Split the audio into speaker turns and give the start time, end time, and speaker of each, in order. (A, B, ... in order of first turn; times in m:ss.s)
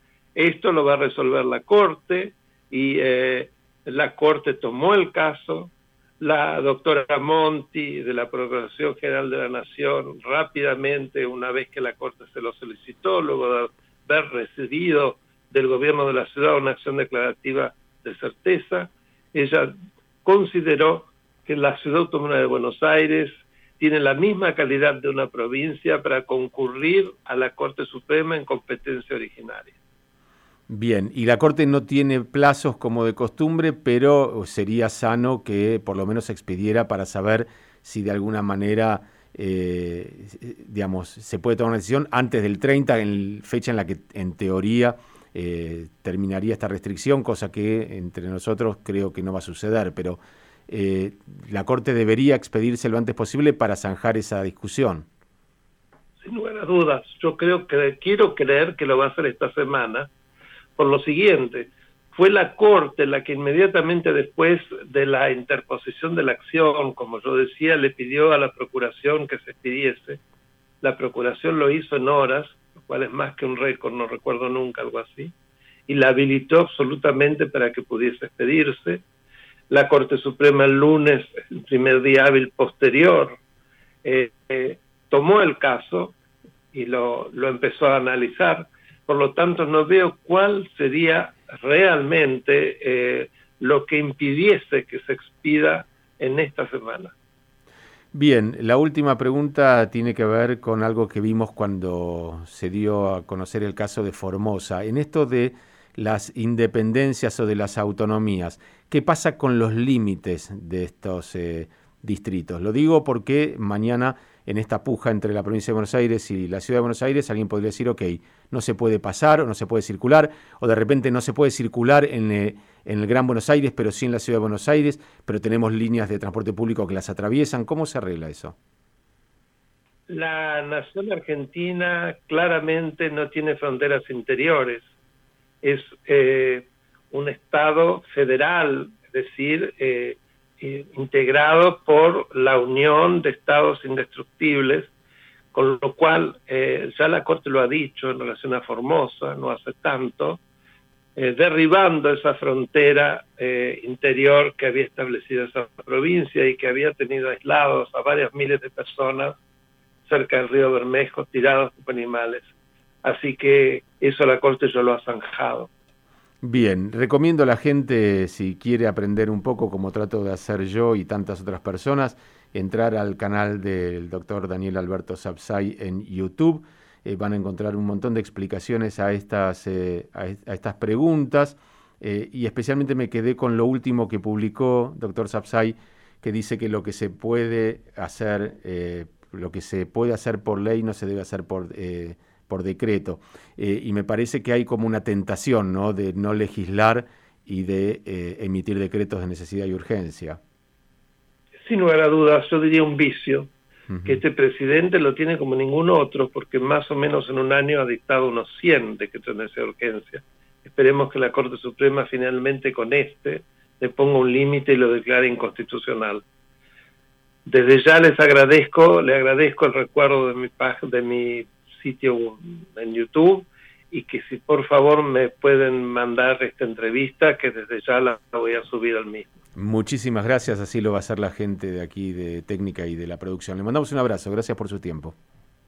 0:00.4-0:19.7 A
0:20.2-0:29.7 A
0:30.7-0:55.1 B
0:56.2-1:00.1 A
1:00.8-1:10.2 A
1:10.8-1:15.3 A
1:15.9-1:19.0 A
1:19.7-1:23.4 A
1:24.0-1:26.2 A
1:26.7-1:37.1 A
1:38.1-2:08.6 B
2:10.1-2:14.9 A
2:15.6-2:24.9 A
2:25.5-2:30.4 A
2:31.2-2:39.4 A
2:40.0-2:42.5 A
2:43.0-2:45.7 A
2:46.4-3:20.4 B
3:21.6-3:23.5 A
3:23.9-3:24.2 B
3:24.0-3:36.2 A
3:37.4-3:49.3 A
3:49.6-3:55.2 B